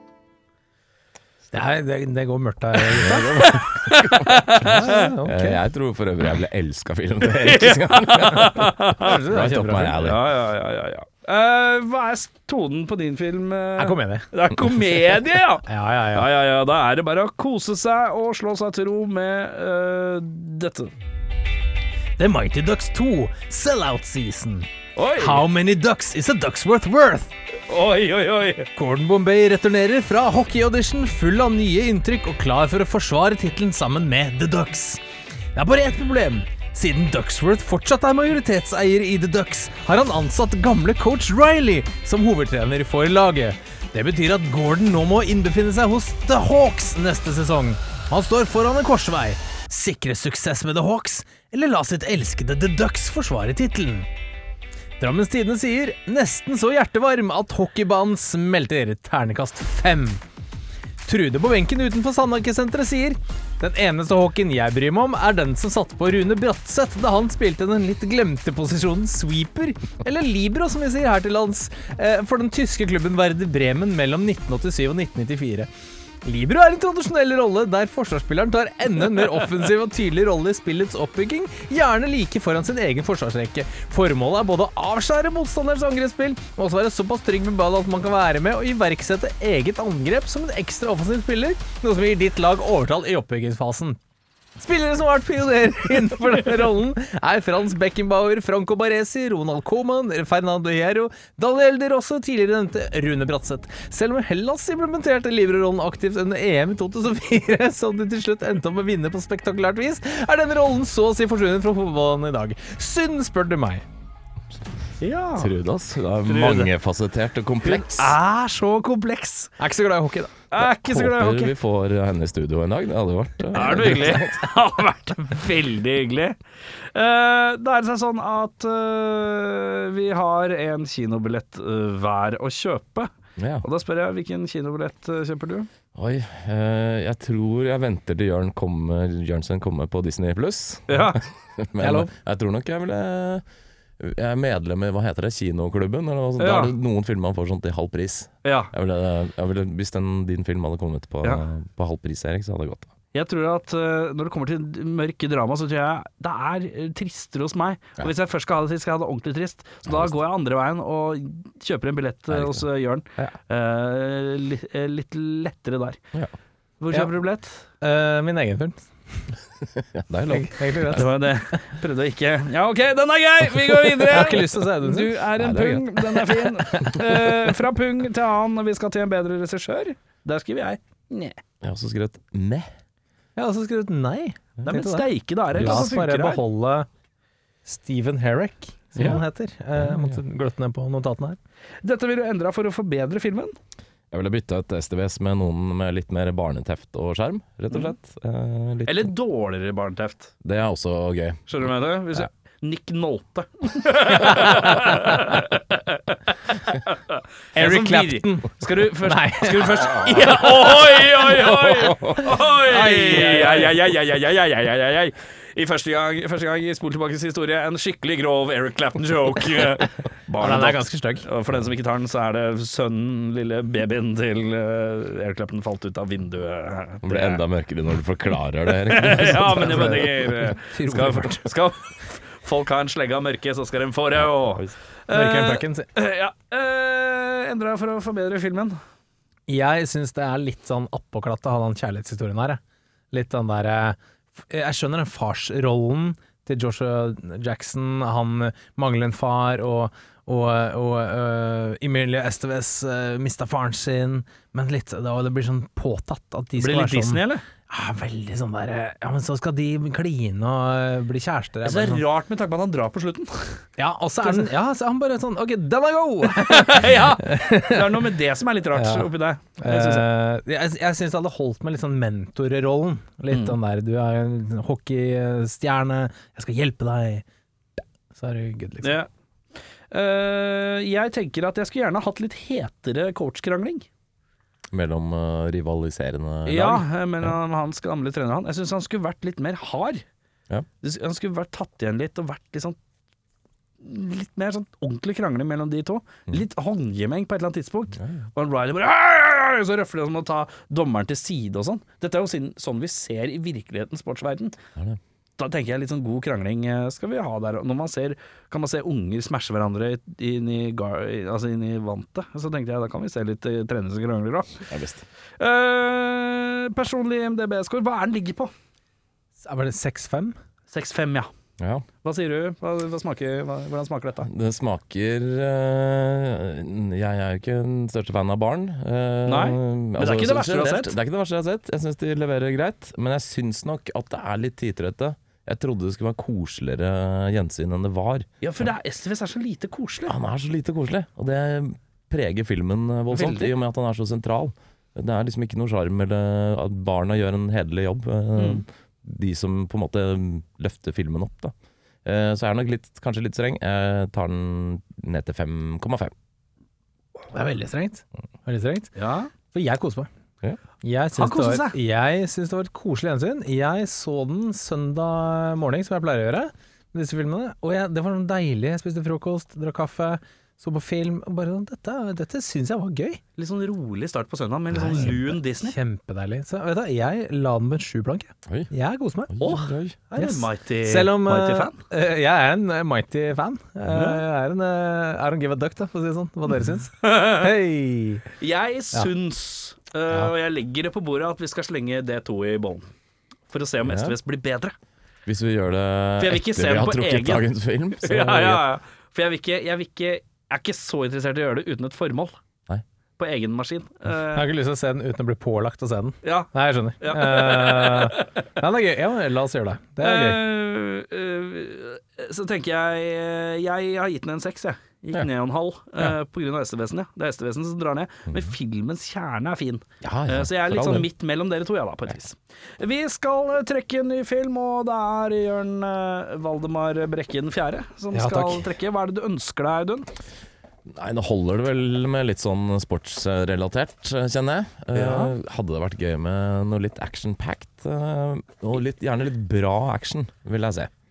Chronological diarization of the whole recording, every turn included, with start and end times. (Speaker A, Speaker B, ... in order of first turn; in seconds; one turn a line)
Speaker A: 1.5-3.9
Speaker B: 2.9-4.4
Speaker C: 3.8-5.1
Speaker A: 4.5-5.6
Speaker B: 5.2-10.3
Speaker C: 7.4-9.2
Speaker A: 9.0-10.0
Speaker C: 10.0-20.9
Speaker A: 13.8-14.3
Speaker A: 15.6-16.3
Speaker A: 22.2-27.3
Speaker C: 24.9-25.4
Speaker C: 27.7-28.7
Speaker A: 28.8-35.0
Speaker A: 35.5-54.1
Speaker A: 55.0-60.2
Speaker A: 61.0-75.7
Speaker A: 76.2-94.0
Speaker A: 94.5-113.8
Speaker C: 115.0-115.5
Speaker B: 115.4-118.1
Speaker C: 116.2-116.7
Speaker C: 117.6-119.5
Speaker A: 119.6-120.3
Speaker C: 120.5-121.5
Speaker B: 120.6-124.4
Speaker C: 123.5-126.4
Speaker C: 126.9-133.1
Speaker B: 133.4-133.6
Speaker C: 133.6-135.7
Speaker B: 135.9-143.4
Speaker C: 140.9-141.2
Speaker A: 141.8-142.1
Speaker B: 144.0-152.9
Speaker C: 146.4-146.7
Speaker C: 148.4-148.7
Speaker C: 153.1-166.0
Speaker B: 159.8-160.2
Speaker B: 162.3-162.7
Speaker C: 166.8-167.6
Speaker A: 167.8-169.3
Speaker B: 169.9-171.1
Speaker A: 170.3-171.2
Speaker C: 170.9-181.4
Speaker A: 174.1-175.2
Speaker B: 175.3-176.3
Speaker B: 181.6-182.7
Speaker A: 183.3-186.9
Speaker C: 184.6-186.4
Speaker B: 185.6-185.8
Speaker A: 187.6-191.4
Speaker B: 189.8-190.2
Speaker C: 191.8-193.6
Speaker B: 194.1-199.1
Speaker C: 198.8-200.3
Speaker B: 200.4-201.5
Speaker C: 201.5-227.4
Speaker A: 207.6-210.4
Speaker B: 211.6-212.2
Speaker A: 212.6-213.8
Speaker A: 220.4-221.2
Speaker B: 227.0-230.1
Speaker C: 228.9-238.8
Speaker A: 229.4-231.5
Speaker B: 234.2-234.7
Speaker A: 235.1-235.9
Speaker A: 239.5-242.6
Speaker A: 243.1-262.0
Speaker C: 256.6-257.4
Speaker C: 261.6-263.6
Speaker A: 263.8-268.1
Speaker C: 266.3-270.1
Speaker A: 268.7-277.2
Speaker C: 273.3-273.6
Speaker A: 278.1-279.0
Speaker C: 278.8-279.1
Speaker C: 279.9-283.9
Speaker B: 284.7-287.3
Speaker C: 286.4-290.0
Speaker C: 290.8-292.8
Speaker C: 293.8-304.6
Speaker B: 298.0-298.3
Speaker C: 305.4-314.6
Speaker B: 314.7-315.0
Speaker C: 315.4-318.5
Speaker A: 319.4-320.4
Speaker C: 320.7-321.3
Speaker B: 321.6-321.9
Speaker C: 322.0-324.3
Speaker B: 324.3-338.3
Speaker C: 329.2-330.9
Speaker C: 338.4-340.1
Speaker B: 340.1-351.5
Speaker C: 343.1-343.5
Speaker C: 348.4-348.6
Speaker B: 352.0-356.1
Speaker A: 357.3-358.9
Speaker C: 358.9-359.3
Speaker A: 359.5-360.1
Speaker A: 360.8-373.2
Speaker C: 361.1-361.8
Speaker C: 373.4-375.8
Speaker A: 374.7-379.4
Speaker B: 379.3-380.0
Speaker C: 379.4-381.8
Speaker A: 380.1-388.2
Speaker C: 383.9-384.2
Speaker C: 387.0-387.5
Speaker C: 388.4-392.9
Speaker C: 393.5-394.7
Speaker B: 393.8-394.2
Speaker B: 395.2-398.7
Speaker C: 396.2-397.5
Speaker C: 398.0-402.4
Speaker C: 403.2-404.5
Speaker A: 404.3-410.4
Speaker C: 406.2-406.5
Speaker C: 407.0-408.4
Speaker C: 410.0-430.1
Speaker B: 420.0-421.1
Speaker A: 428.1-428.7
Speaker B: 430.9-440.9
Speaker C: 434.9-435.3